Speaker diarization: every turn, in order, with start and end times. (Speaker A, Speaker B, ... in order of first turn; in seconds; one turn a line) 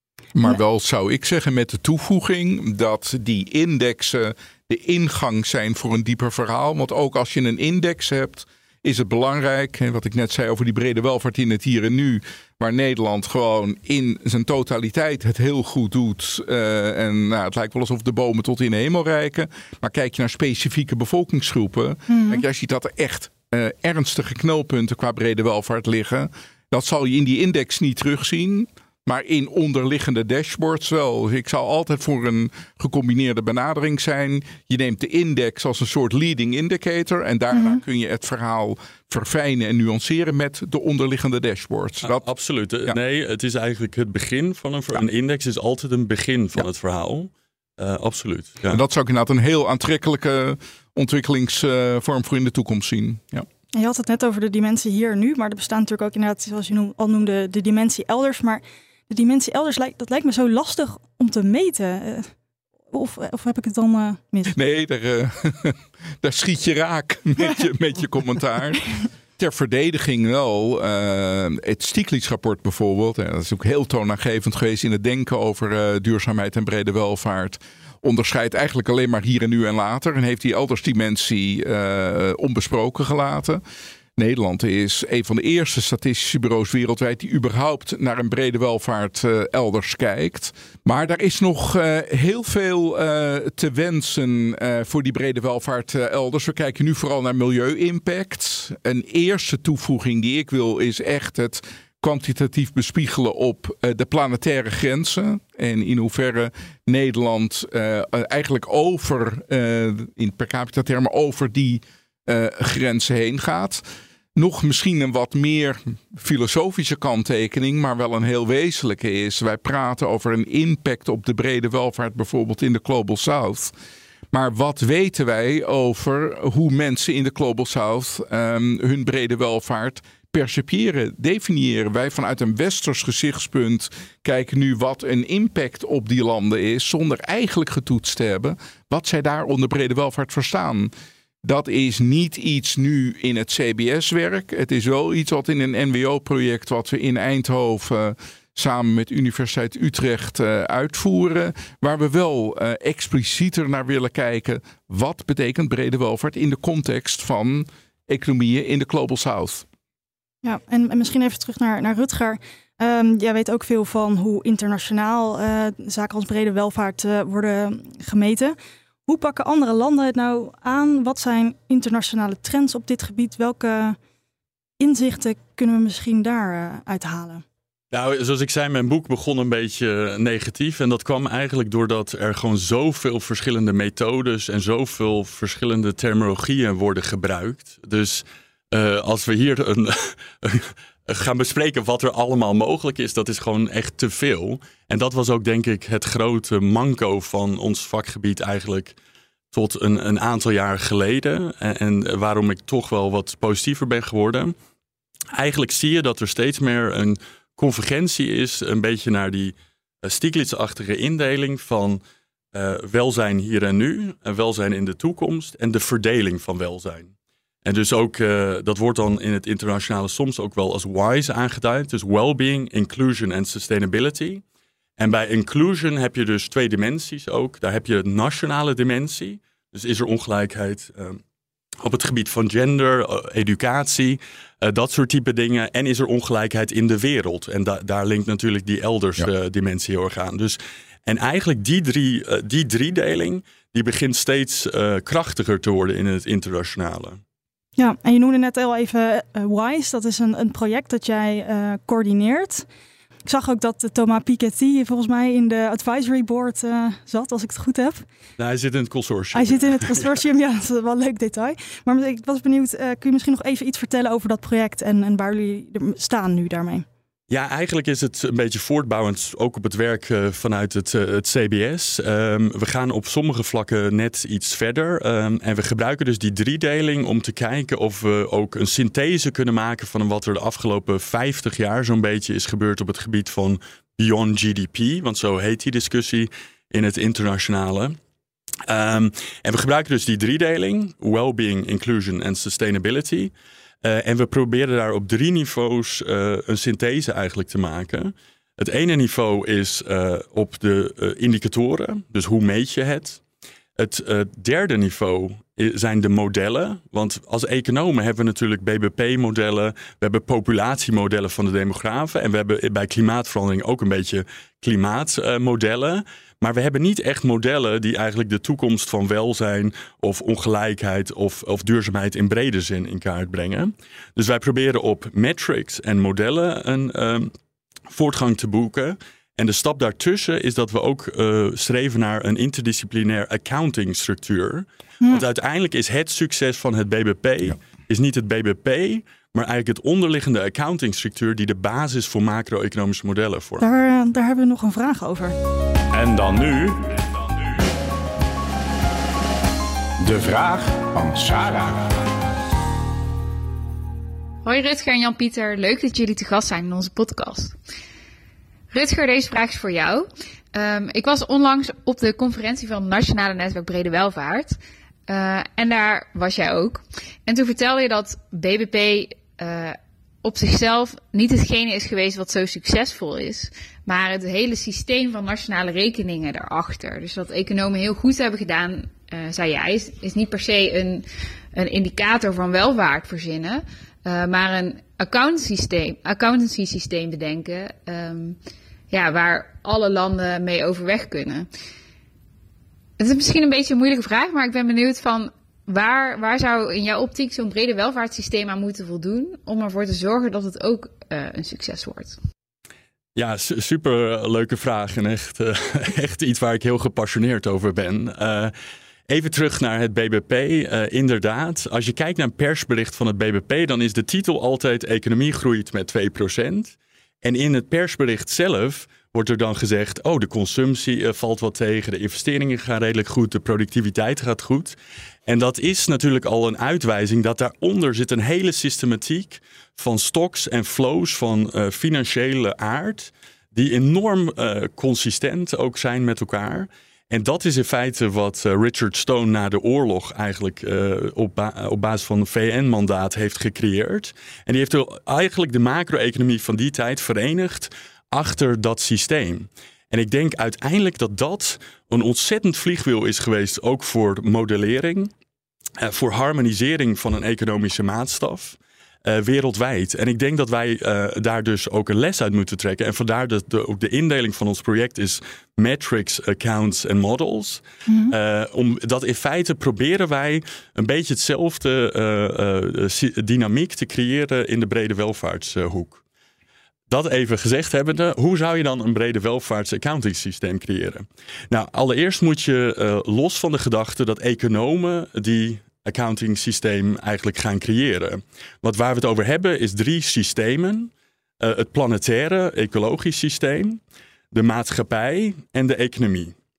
Speaker A: 0.3-42.2
Speaker B: 22.1-22.4
Speaker C: 42.0-48.8
Speaker A: 48.7-53.5
Speaker B: 53.8-62.3
Speaker B: 62.9-64.6
Speaker A: 64.5-68.8
Speaker A: 69.4-83.6
Speaker A: 84.2-113.8
Speaker A: 114.3-123.7
Speaker A: 124.3-140.9
Speaker A: 141.4-159.7
Speaker B: 160.4-174.0
Speaker B: 174.8-177.4
Speaker C: 177.9-199.0
Speaker C: 199.5-204.6
Speaker C: 205.3-212.0
Speaker C: 212.5-217.1
Speaker C: 217.6-224.4
Speaker C: 225.0-231.2
Speaker C: 231.8-247.2
Speaker B: 247.8-252.7
Speaker B: 253.3-258.1
Speaker C: 258.4-260.2
Speaker B: 259.3-266.9
Speaker C: 267.3-288.0
Speaker C: 288.7-303.2
Speaker C: 303.8-327.3
Speaker C: 327.9-343.7
Speaker B: 343.6-345.4
Speaker D: 345.9-347.4
Speaker D: 350.0-352.1
Speaker E: 354.4-357.6
Speaker E: 358.7-388.4
Speaker E: 388.9-391.5
Speaker E: 393.0-402.2
Speaker C: 403.2-408.5
Speaker C: 409.1-424.8
Speaker C: 425.3-455.1
Speaker C: 455.8-476.0
Speaker B: 467.9-468.1
Speaker C: 476.9-493.8
Speaker C: 494.3-496.4